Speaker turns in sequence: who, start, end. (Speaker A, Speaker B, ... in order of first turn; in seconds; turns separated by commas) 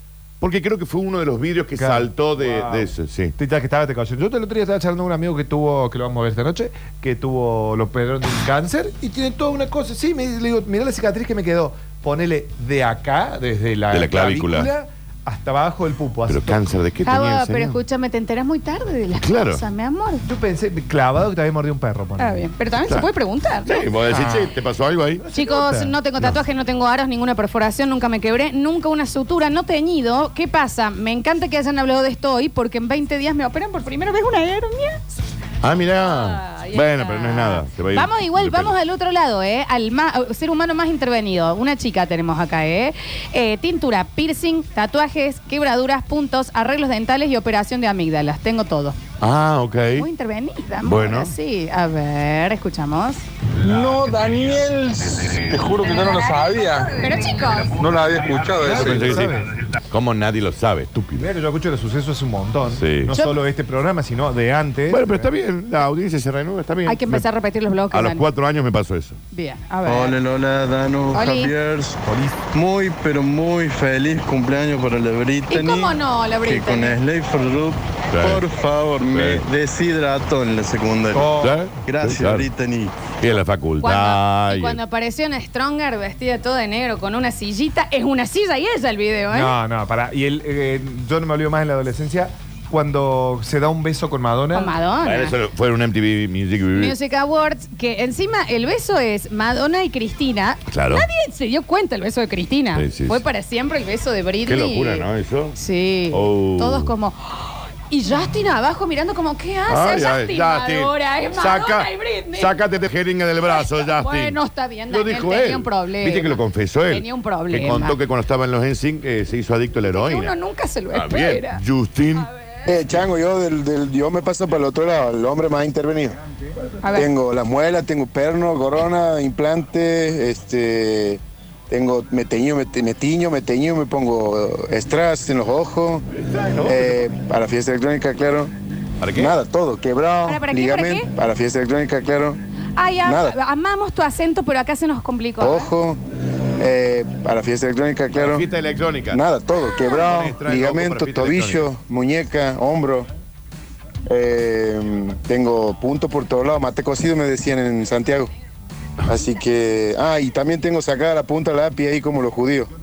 Speaker A: 0.4-3.4, Speaker B: 1.8-16.7, Speaker A: 13.9-14.7, Speaker A: 16.3-17.8, Speaker C: 17.1-20.2, Speaker A: 19.2-19.6, Speaker B: 20.2-22.5, Speaker C: 22.2-23.8, Speaker A: 23.7-25.2, Speaker B: 24.1-24.5, Speaker B: 25.2-25.9, Speaker C: 25.3-35.0, Speaker A: 35.6-38.7, Speaker C: 36.0-49.0, Speaker A: 49.2-50.1, Speaker C: 50.0-53.2, Speaker A: 50.8-51.3, Speaker A: 53.6-55.5, Speaker D: 53.7-57.0, Speaker C: 55.8-57.8, Speaker D: 57.8-59.1, Speaker B: 58.6-59.5, Speaker A: 58.6-61.3, Speaker B: 61.2-65.3, Speaker A: 62.7-63.1, Speaker C: 63.1-63.4, Speaker A: 64.9-67.2, Speaker C: 66.9-68.2, Speaker A: 67.9-69.2, Speaker C: 69.3-70.2, Speaker D: 69.9-72.0, Speaker C: 71.1-71.5, Speaker B: 72.0-72.4, Speaker D: 72.5-81.3, Speaker C: 75.5-77.0, Speaker A: 78.1-78.5, Speaker A: 79.0-79.5, Speaker B: 81.1-81.7, Speaker A: 81.4-82.5, Speaker D: 81.9-83.0, Speaker A: 83.2-84.8, Speaker C: 83.8-89.5, Speaker B: 89.3-94.7, Speaker C: 94.5-95.3, Speaker A: 95.0-97.0, Speaker C: 96.8-112.5, Speaker A: 100.7-101.1, Speaker A: 102.8-103.2, Speaker A: 104.5-105.6, Speaker A: 106.1-106.9, Speaker A: 109.7-114.4, Speaker C: 113.5-118.0, Speaker A: 114.9-120.3, Speaker C: 119.9-121.6, Speaker A: 120.9-122.3, Speaker E: 122.7-126.2, Speaker C: 126.8-127.1, Speaker E: 126.9-136.0, Speaker A: 136.2-137.0, Speaker E: 136.6-138.5, Speaker A: 139.0-139.3, Speaker E: 139.2-142.4, Speaker C: 140.2-141.1, Speaker C: 142.8-145.7, Speaker E: 143.1-143.4, Speaker E: 145.4-146.0, Speaker E: 146.6-148.5, Speaker A: 148.2-149.2, Speaker E: 149.1-153.1, Speaker A: 149.9-151.6, Speaker E: 154.1-158.3, Speaker E: 159.1-162.7